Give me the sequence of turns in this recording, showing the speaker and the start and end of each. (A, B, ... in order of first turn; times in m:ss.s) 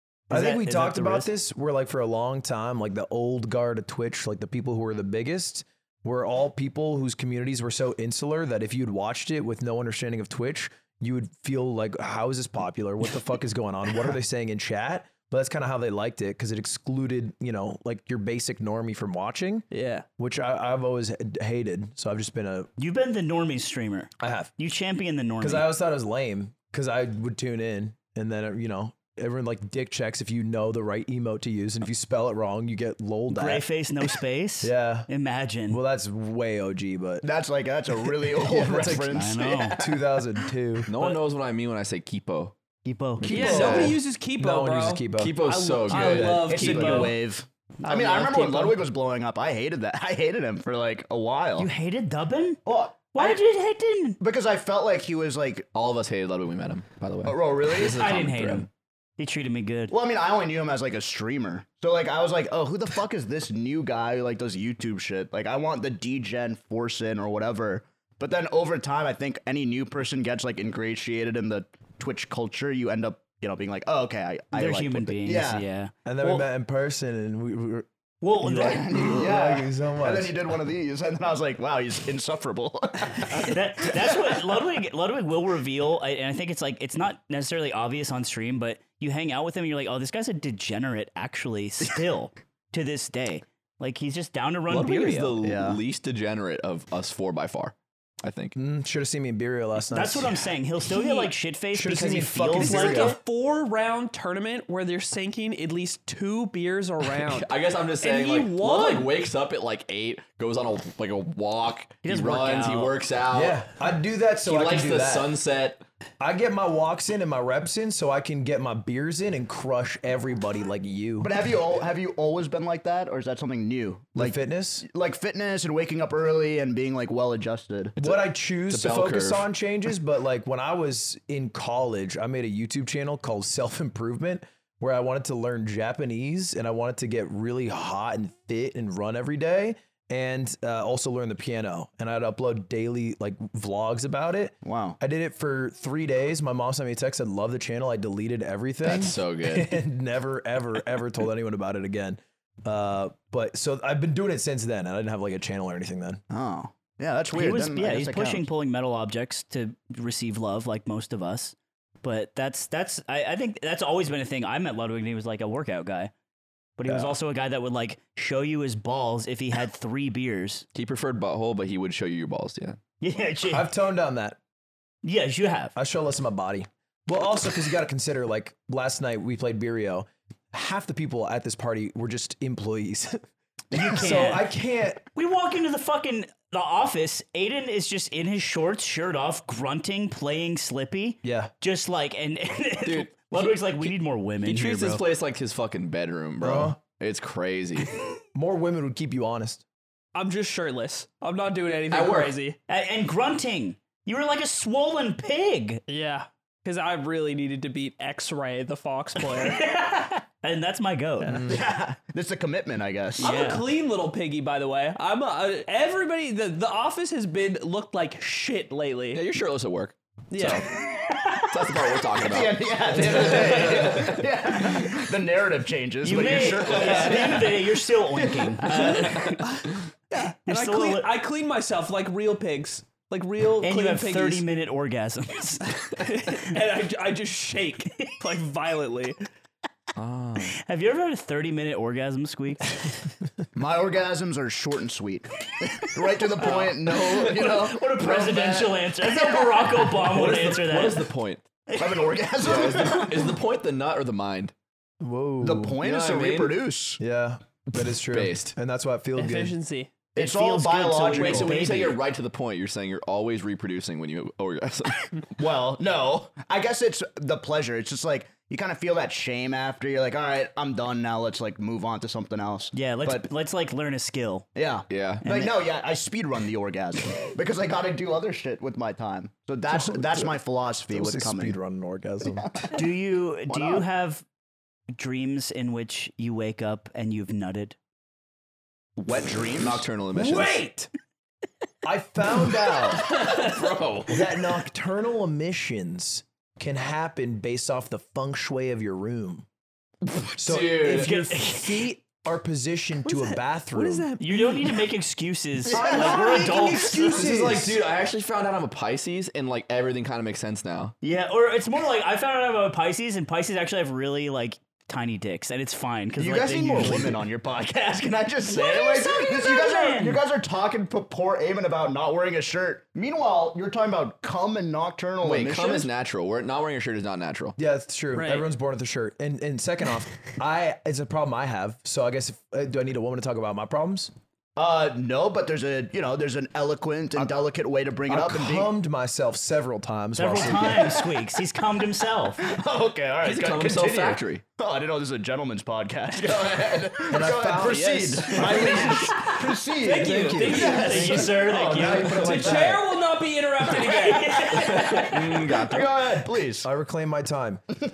0:00.3-0:19.7 A
0:00.3-0:01.3 B
0:19.7-0:20.0 C
0:20.2-0:22.7 A
0:22.8-0:25.7 B
0:24.2-0:24.5 A
0:25.4-0:33.6 A
0:33.3-0:35.8 B
0:34.6-0:35.1 A
0:35.7-0:37.2 A
0:37.2-0:40.1 D
0:38.0-0:40.9 A
0:39.1-0:39.8 B
0:40.9-0:42.5 E
0:42.8-0:43.7 B
0:43.2-0:45.4 A
0:43.2-0:44.0 D
0:43.3-0:47.2 C
0:43.4-0:44.0 E
0:45.2-0:46.9 E
0:45.9-0:46.5 A
0:46.4-0:51.7 D
0:46.8-0:47.1 B
0:47.8-0:48.7 B
0:48.0-0:48.7 C
0:51.6-0:52.6 B
0:52.6-0:53.4 D
0:53.1-0:54.2 B
0:54.2-0:55.7 D
0:55.7-0:58.7 E
0:57.2-0:58.1 D
0:57.8-0:59.9 B
0:59.9-1:15.6 D
1:14.5-1:15.9 B
1:16.0-1:17.9 A
1:18.2-1:19.2 B
1:18.4-1:20.3 A
1:18.5-1:24.2 D
1:23.3-1:35.4 B
1:34.7-1:38.6 E
1:35.4-1:35.8 D
1:38.6-1:40.4 A
1:39.9-1:43.2 B
1:40.9-1:41.3 C
1:41.7-1:43.2 A
1:42.5-1:49.1 C
1:47.2-1:53.6 E
1:52.0-1:53.0 B
1:53.3-1:55.3 A
1:54.4-1:55.8 E
1:56.2-2:01.3 A
2:01.2-2:08.0 D
2:04.2-2:04.9 A
2:08.0-2:09.4 E
2:08.0-2:36.2 A
2:24.6-2:25.0 D
2:28.8-2:29.8 E
2:36.3-2:38.4 D
2:37.3-2:46.1 B
2:46.8-2:50.6 B
2:46.8-2:47.1 A
2:50.7-2:52.8 E
2:53.0-2:53.7 B
2:53.4-2:54.4 A
2:55.0-2:55.7 B
2:55.7-3:03.2 A
3:03.7-3:04.5 B
3:03.7-3:05.0 A
3:05.1-3:15.0 B
3:11.2-3:11.5 A
3:12.8-3:13.8 E
3:14.4-3:18.0 E
3:16.4-3:16.8 A
3:18.3-3:19.6 A
3:20.1-3:22.6 C
3:21.9-3:22.3 E
3:22.7-3:25.8 B
3:25.9-3:29.6 C
3:29.2-3:31.5 B
3:31.2-3:31.6 A
3:31.5-3:33.6 D
3:33.2-3:39.2 C
3:33.2-3:33.6 B
3:39.1-3:40.7 E
3:40.3-3:40.6 C
3:40.8-3:41.5 B
3:41.4-3:44.3 E
3:42.2-3:47.6 D
3:46.0-3:49.4 B
3:46.6-3:47.6 C
3:48.3-3:48.6 D
3:48.6-3:54.4 C
3:48.9-3:49.4 E
3:50.4-3:51.1 B
3:53.6-3:55.7 B
3:55.8-3:59.2 C
3:59.9-4:00.6 E
4:00.4-4:03.0 B
4:03.5-4:09.6 D
4:06.4-4:11.1 B
4:09.9-4:11.5 E
4:11.7-4:12.1 B
4:11.8-4:13.3 D
4:12.4-4:14.5 E
4:12.8-4:13.0 B
4:15.0-4:15.8 A
4:15.4-4:17.0 D
4:15.8-4:16.6 E
4:17.0-4:19.6 A
4:18.1-4:18.5 E
4:19.2-4:19.9 C
4:20.1-4:21.8 D
4:20.2-4:22.0 B
4:21.1-4:25.2 E
4:25.4-4:33.3 D
4:32.7-4:34.4 B
4:34.6-4:41.6 D
4:34.9-4:35.2 E
4:35.2-4:35.5 B
4:39.7-4:40.4 A
4:40.9-4:42.5 A
4:42.2-4:42.8 D
4:42.7-4:44.2 B
4:43.5-4:43.8 D
4:45.0-4:47.8 B
4:49.0-4:49.9 D
4:49.6-4:50.6 E
4:50.1-4:50.9 A
4:51.8-4:53.2 A
4:53.0-4:54.2 E
4:54.1-4:59.4 A
5:00.2-5:01.1 E
5:00.4-5:04.1 A
5:00.8-5:01.9 B
5:03.0-5:04.8 C
5:04.2-5:07.3 B
5:05.7-5:07.8 A
5:05.7-5:06.2 D
5:05.8-5:06.2 C
5:07.0-5:10.9 E
5:11.0-5:17.2 B
5:16.2-5:25.9 D
5:18.4-5:20.2 B
5:25.2-5:27.6 E
5:27.6-5:34.1 A
5:28.1-5:28.5 C
5:34.6-5:38.7 D
5:38.1-5:41.0 A
5:40.2-5:42.5 B
5:42.4-5:51.1 D
5:43.2-5:44.4 E
5:47.1-5:48.6 A
5:47.5-5:55.1 C
5:50.0-5:52.8 A
5:50.5-5:52.6 B
5:53.7-5:55.5 B
5:54.5-5:55.9 E
5:55.1-5:56.7 D
5:56.6-5:57.6 A